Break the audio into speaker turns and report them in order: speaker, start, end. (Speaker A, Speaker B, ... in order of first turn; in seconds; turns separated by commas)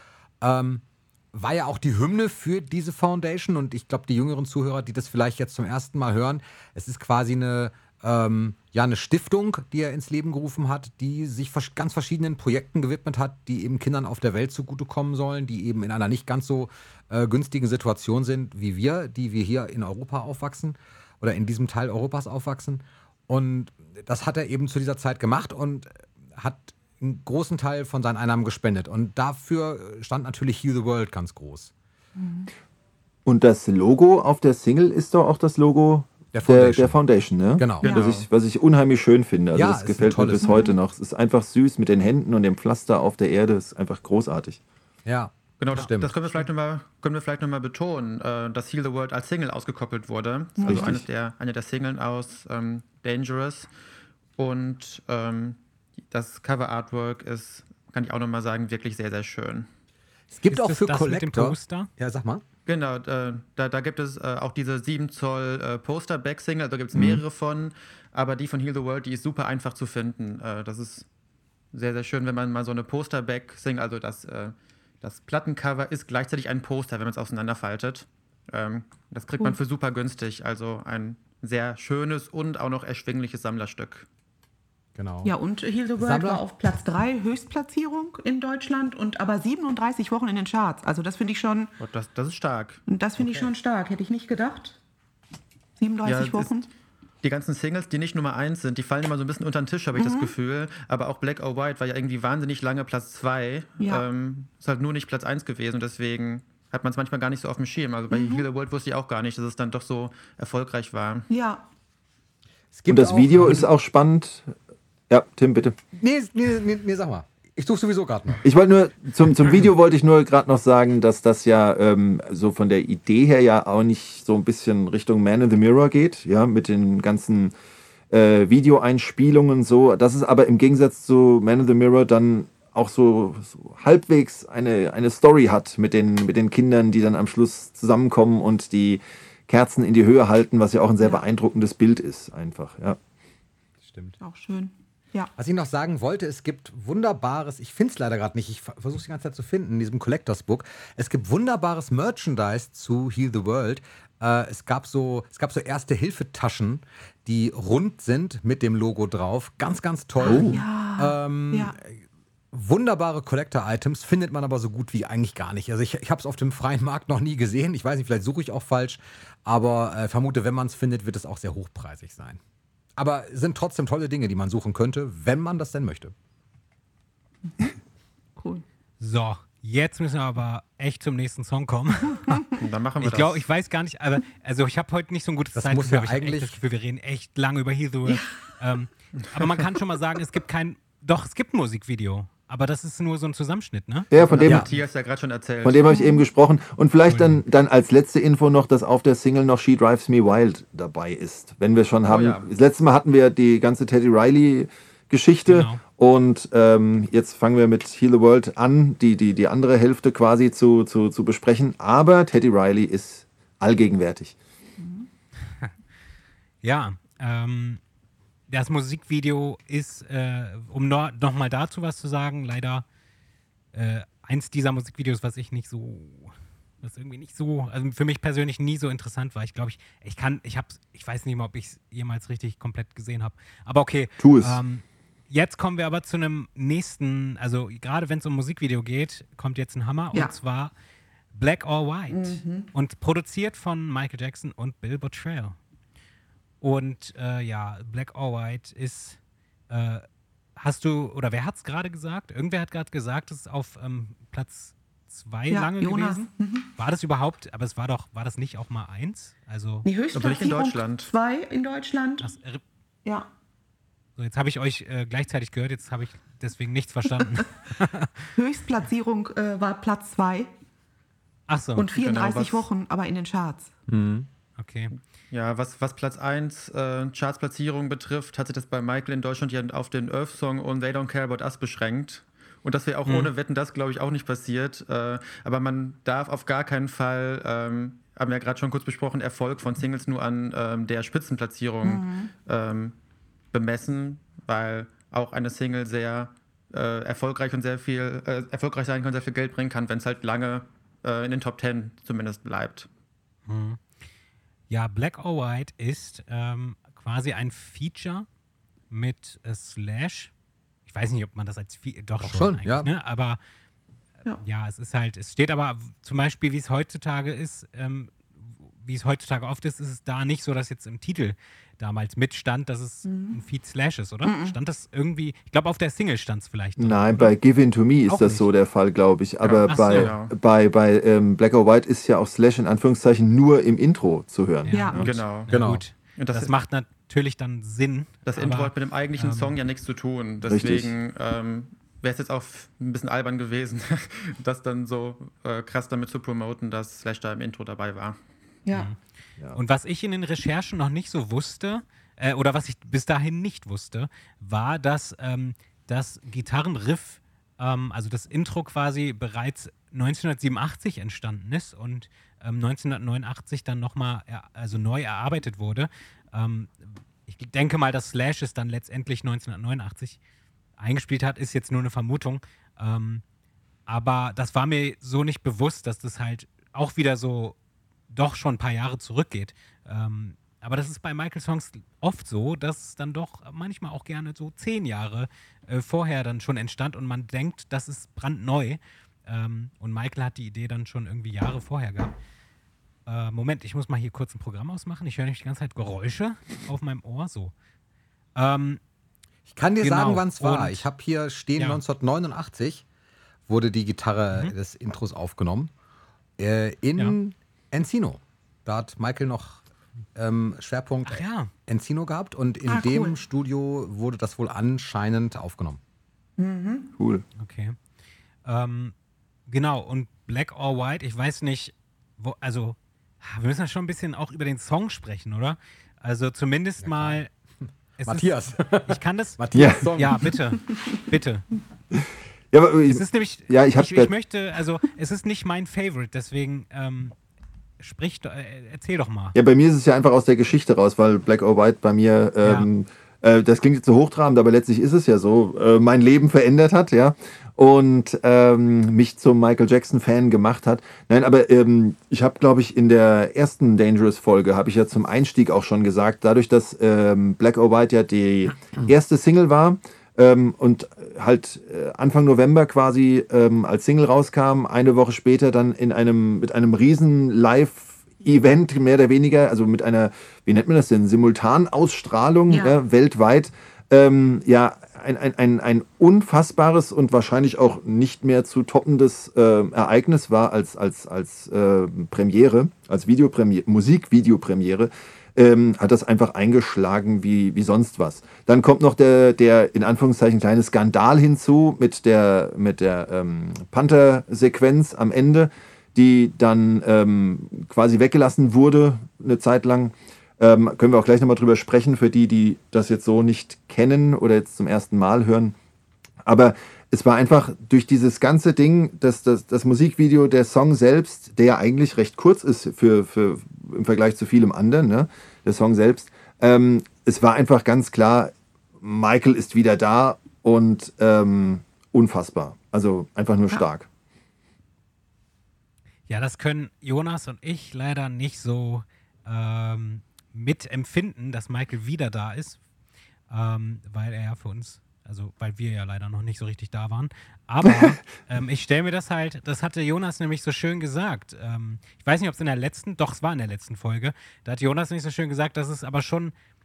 Speaker A: 0.4-31.7, Speaker B: 32.2-32.5, Speaker C: 33.3-44.6, Speaker A: 36.3-37.0, Speaker A: 37.6-37.9, Speaker D: 37.8-38.3, Speaker B: 37.8-38.1, Speaker A: 39.5-40.7, Speaker B: 40.4-40.8, Speaker A: 45.0-46.2, Speaker D: 45.6-53.7, Speaker B: 50.6-51.0, Speaker C: 50.6-51.0, Speaker D: 54.4-55.6, Speaker D: 56.1-59.7, Speaker A: 60.3-62.4, Speaker E: 60.5-61.9, Speaker D: 62.7-71.1, Speaker C: 66.9-67.2, Speaker D: 71.7-84.1, Speaker A: 85.0-85.3, Speaker B: 85.2-91.7, Speaker A: 86.0-86.4, Speaker D: 91.8-92.8, Speaker B: 92.9-94.8, Speaker A: 93.2-93.5, Speaker B: 95.8-96.7, Speaker D: 96.0-96.6, Speaker D: 97.2-111.3, Speaker B: 100.0-100.3, Speaker B: 108.1-108.4, Speaker B: 111.3-111.6, Speaker A: 112.7-113.7, Speaker C: 112.9-114.5, Speaker C: 115.1-115.8, Speaker A: 116.0-118.4, Speaker C: 118.4-127.5, Speaker C: 128.1-143.0, Speaker A: 143.8-144.2, Speaker B: 144.2-145.3, Speaker A: 145.4-172.4, Speaker C: 160.2-160.6, Speaker B: 160.2-161.8, Speaker A: 173.0-176.1, Speaker B: 178.4-178.7, Speaker E: 179.0-194.1, Speaker D: 182.6-183.4, Speaker A: 185.5-186.6, Speaker B: 188.1-188.4, Speaker C: 194.1-194.8, Speaker D: 194.2-195.9, Speaker C: 195.6-214.4, Speaker B: 195.9-196.2, Speaker E: 197.1-197.4, Speaker D: 202.1-202.5, Speaker E: 205.5-205.8, Speaker B: 214.8-215.1, Speaker E: 216.6-217.8, Speaker E: 218.5-222.8, Speaker E: 223.7-240.7, Speaker C: 234.2-234.6, Speaker E: 241.3-245.6, Speaker B: 242.1-242.7, Speaker E: 246.6-250.0, Speaker E: 250.6-259.9, Speaker B: 255.5-256.7, Speaker B: 259.9-262.3, Speaker D: 260.1-261.1, Speaker E: 262.2-262.6, Speaker E: 264.2-268.3, Speaker B: 268.4-270.5, Speaker E: 271.5-271.9, Speaker B: 271.8-273.7, Speaker D: 271.9-272.7, Speaker A: 273.9-274.3, Speaker E: 274.6-274.9, Speaker D: 275.3-292.9, Speaker E: 283.1-283.3, Speaker B: 291.8-292.3, Speaker D: 293.5-302.9, Speaker E: 303.5-303.8, Speaker E: 304.7-308.3, Speaker E: 308.9-310.3, Speaker E: 310.9-313.4, Speaker A: 312.2-312.9, Speaker E: 314.4-327.4, Speaker B: 323.1-323.4, Speaker B: 324.2-324.6, Speaker C: 326.8-335.1, Speaker E: 328.1-328.5, Speaker D: 329.4-330.3, Speaker E: 329.7-330.1, Speaker E: 334.7-339.6, Speaker B: 334.7-335.0, Speaker D: 335.0-335.5, Speaker A: 335.5-335.8, Speaker D: 336.2-336.5, Speaker D: 338.3-348.2, Speaker C: 340.5-340.9, Speaker B: 348.7-348.9, Speaker E: 348.7-349.0, Speaker E: 349.5-370.2, Speaker E: 370.8-373.2, Speaker E: 373.9-377.6, Speaker E: 378.1-392.1, Speaker E: 393.1-397.5, Speaker E: 398.4-398.8, Speaker A: 399.5-402.8, Speaker E: 399.8-400.9, Speaker A: 403.5-405.7, Speaker A: 406.4-409.6, Speaker A: 410.1-415.8, Speaker E: 411.1-411.5, Speaker B: 412.7-413.2, Speaker B: 416.4-416.9, Speaker C: 417.0-417.2, Speaker E: 417.4-417.8, Speaker E: 418.4-418.9, Speaker E: 419.5-427.3, Speaker A: 426.8-430.4, Speaker E: 428.0-431.5, Speaker C: 429.5-429.9, Speaker C: 432.5-434.1, Speaker E: 432.9-437.1, Speaker E: 437.8-439.4, Speaker C: 439.3-505.6, Speaker E: 442.4-442.7, Speaker B: 472.5-472.8, Speaker C: 506.2-523.9, Speaker E: 526.1-532.6, Speaker E: 533.3-546.3